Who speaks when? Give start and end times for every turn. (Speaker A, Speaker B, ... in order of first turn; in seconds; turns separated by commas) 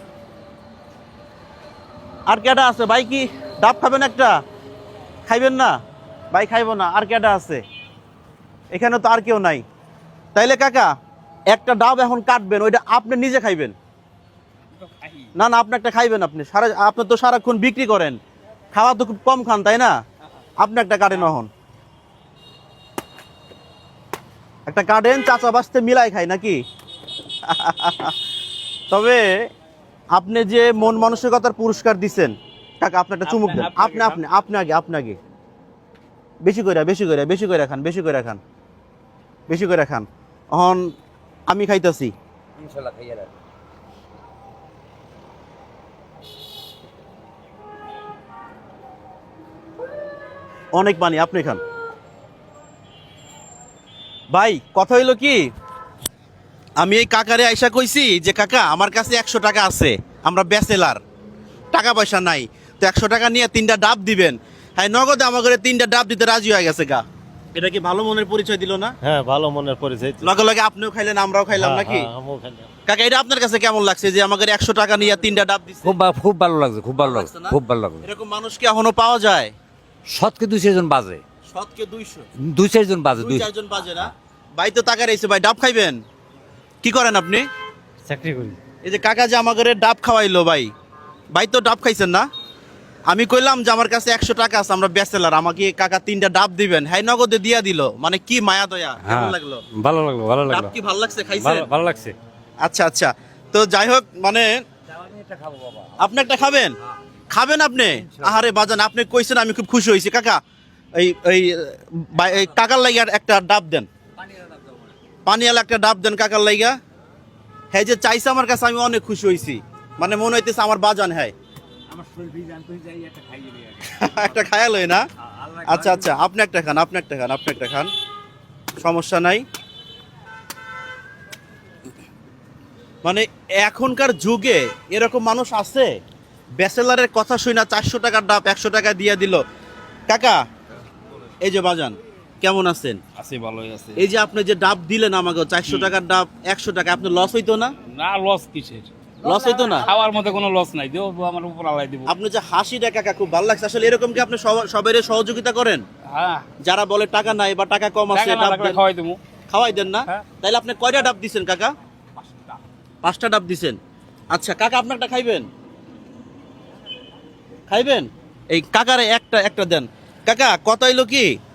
Speaker A: 2.3-4.4, Speaker A: 5.3-5.8, Speaker A: 6.3-7.6, Speaker A: 8.7-9.6, Speaker A: 10.3-10.9, Speaker A: 11.5-13.8, Speaker B: 14.8-15.3, Speaker A: 15.4-18.2, Speaker A: 18.7-19.9, Speaker A: 20.6-21.5, Speaker A: 24.7-26.6, Speaker A: 27.5-28.1, Speaker A: 28.9-29.5, Speaker A: 30.1-35.2, Speaker B: 33.2-34.2, Speaker A: 36.4-38.4, Speaker A: 39.5-40.9, Speaker A: 41.5-42.1, Speaker C: 42.6-43.3, Speaker A: 50.8-51.6, Speaker A: 54.3-55.5, Speaker A: 56.8-61.0, Speaker A: 61.7-67.0, Speaker A: 67.5-68.9, Speaker D: 69.0-70.3, Speaker A: 70.2-72.1, Speaker D: 71.5-72.7, Speaker A: 72.9-76.0, Speaker C: 75.8-78.0, Speaker A: 77.0-79.5, Speaker C: 80.1-81.2, Speaker A: 81.5-82.2, Speaker C: 82.5-83.5, Speaker A: 83.2-86.0, Speaker A: 86.8-87.5, Speaker D: 88.1-88.6, Speaker A: 88.8-90.7, Speaker A: 91.3-92.3, Speaker A: 93.1-99.7, Speaker C: 99.0-100.7, Speaker A: 100.5-101.7, Speaker C: 101.4-102.2, Speaker A: 102.6-104.6, Speaker C: 104.9-106.1, Speaker A: 106.0-106.8, Speaker A: 107.3-110.4, Speaker A: 111.0-113.9, Speaker C: 114.2-114.9, Speaker A: 115.3-116.8, Speaker A: 117.7-121.3, Speaker C: 121.9-123.8, Speaker A: 123.8-125.0, Speaker B: 125.4-126.1, Speaker A: 125.7-127.9, Speaker A: 128.8-129.4, Speaker A: 133.0-135.9, Speaker A: 136.6-139.4, Speaker A: 140.1-140.4, Speaker A: 141.4-143.0, Speaker B: 143.2-144.0, Speaker A: 144.0-147.7, Speaker B: 145.7-145.9, Speaker B: 147.9-148.9, Speaker C: 149.2-150.3, Speaker A: 149.2-149.9, Speaker B: 149.9-152.1, Speaker A: 152.1-155.8, Speaker B: 156.1-156.5, Speaker A: 156.6-158.8, Speaker B: 158.1-159.2, Speaker A: 159.5-161.7, Speaker A: 163.0-163.8, Speaker A: 164.3-165.5, Speaker A: 167.7-171.3